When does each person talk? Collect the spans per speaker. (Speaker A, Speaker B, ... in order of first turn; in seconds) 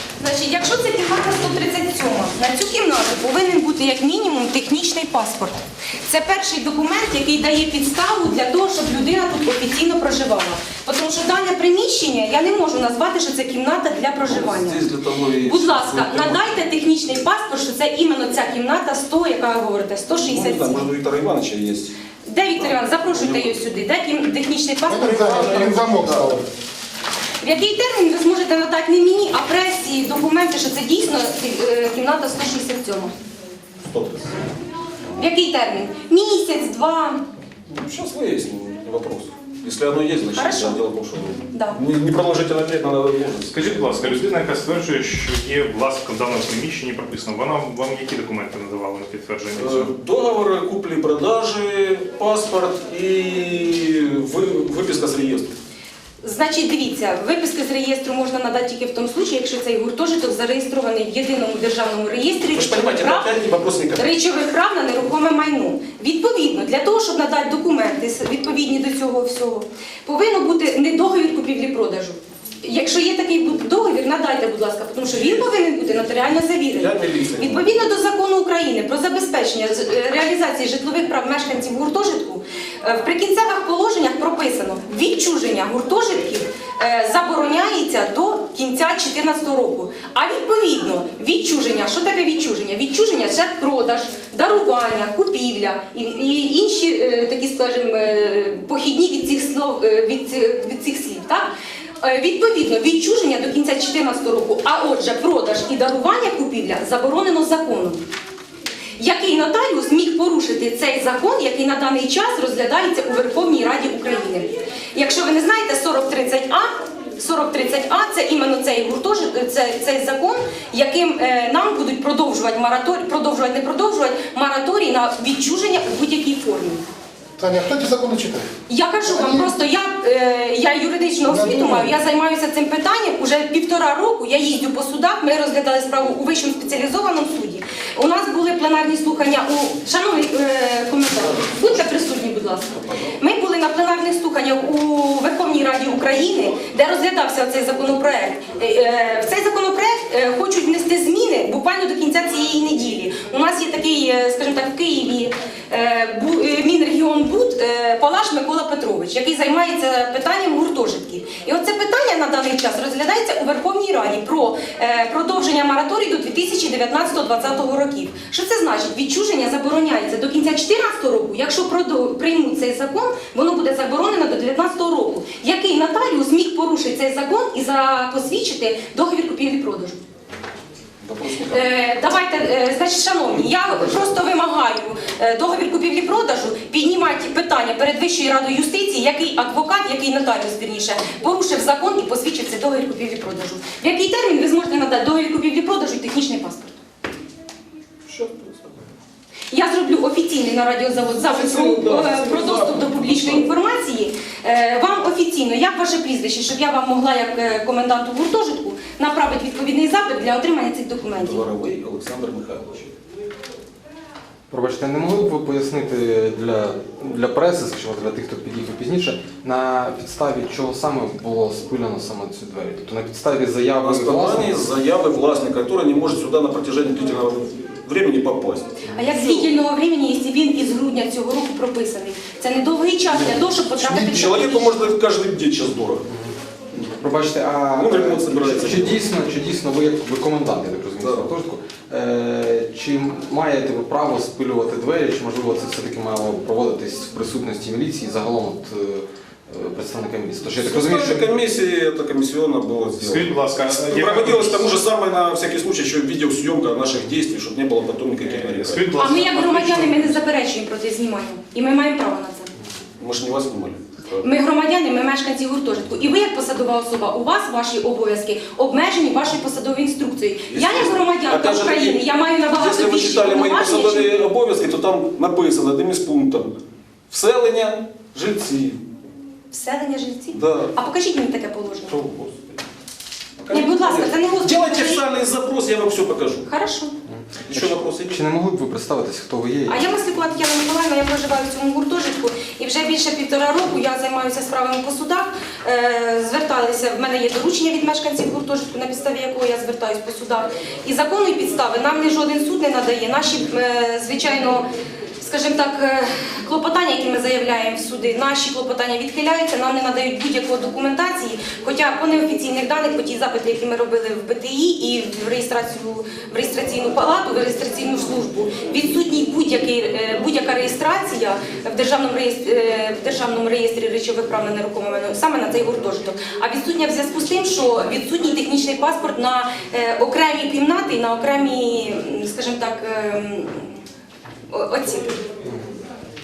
Speaker A: 0.2-14.8, 15.4-20.9, 22.2-25.9, 27.4-33.1, 35.1-37.2, 40.3-40.8, 41.5-41.8, 56.2-63.3, 64.0-101.5, 102.0-108.0, 109.0-126.8, 128.7-180.0, 181.5-196.8, 199.5-211.5, 228.9-234.9, 258.9-262.5, 264.2-274.2, 279.5-282.0, 283.5-285.1, 286.4-286.9, 289.7-304.6, 305.2-333.7, 334.5-335.1
Speaker B: 14.2-16.5, 20.2-21.9, 22.6-23.6, 25.1-26.4, 33.8-34.4, 37.7-44.2, 49.5-55.5, 62.5-64.1, 76.7-77.8, 142.8-143.2, 181.0-181.7, 198.1-198.7, 201.2-203.5, 211.1-212.9, 223.8-229.5, 233.1-236.1, 237.7-239.0, 241.0-241.3, 250.6-258.9, 263.0-264.2, 270.5-276.5, 277.1-278.8, 280.3-280.7, 281.9-282.6, 283.4-286.4, 287.5-288.2
Speaker C: 24.9-26.4, 127.4-128.5, 131.3-131.8
Speaker D: 43.5-49.9, 253.0-254.8, 258.4-260.2
Speaker E: 214.5-224.6, 228.9-229.2, 236.1-251.4, 287.1-289.9